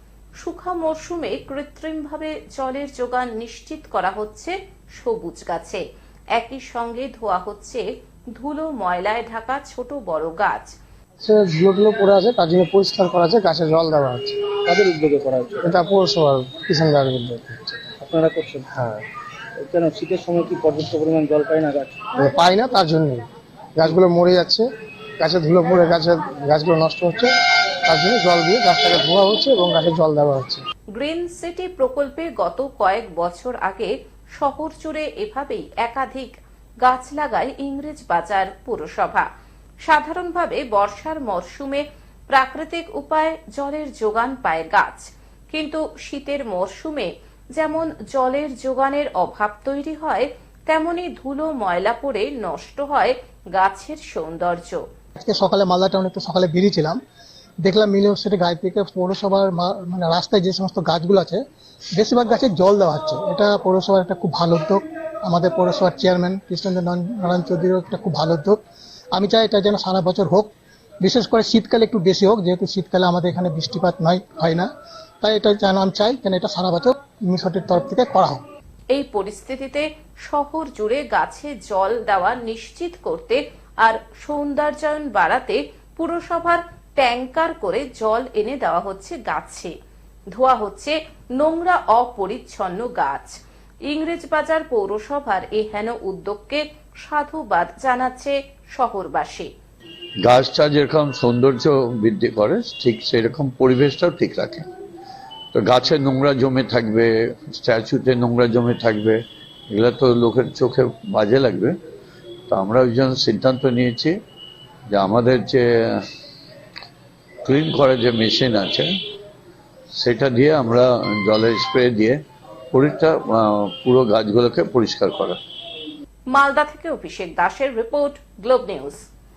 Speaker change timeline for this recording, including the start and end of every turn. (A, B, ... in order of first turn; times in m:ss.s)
0:00.4-0:05.8 A
0:06.3-0:07.8 A
0:08.4-0:10.7 A
0:11.2-0:14.5 B
0:14.6-0:15.8 C
0:15.6-0:17.9 B
0:18.0-0:18.7 C
0:18.7-0:19.0 B
0:19.6-0:22.1 C
0:22.1-0:23.2 B
0:23.8-0:24.7 B
0:25.2-0:27.3 B
0:27.8-0:30.6 B
0:31.0-0:39.3 A
0:39.8-0:54.8 A
0:55.2-0:57.0 D
0:57.6-1:01.4 D
1:02.0-1:08.6 D
1:09.1-1:10.5 D
1:11.0-1:14.7 D
1:15.2-1:18.4 D
1:18.9-1:29.7 A
1:30.3-1:39.5 A
1:40.2-1:44.6 E
1:45.5-1:49.2 E
1:49.7-1:51.8 E
1:52.5-1:54.2 E
1:54.9-1:56.0 E
1:57.4-1:58.9 E
1:59.9-2:02.2 E
2:02.7-2:05.4 E
2:06.3-2:09.0 A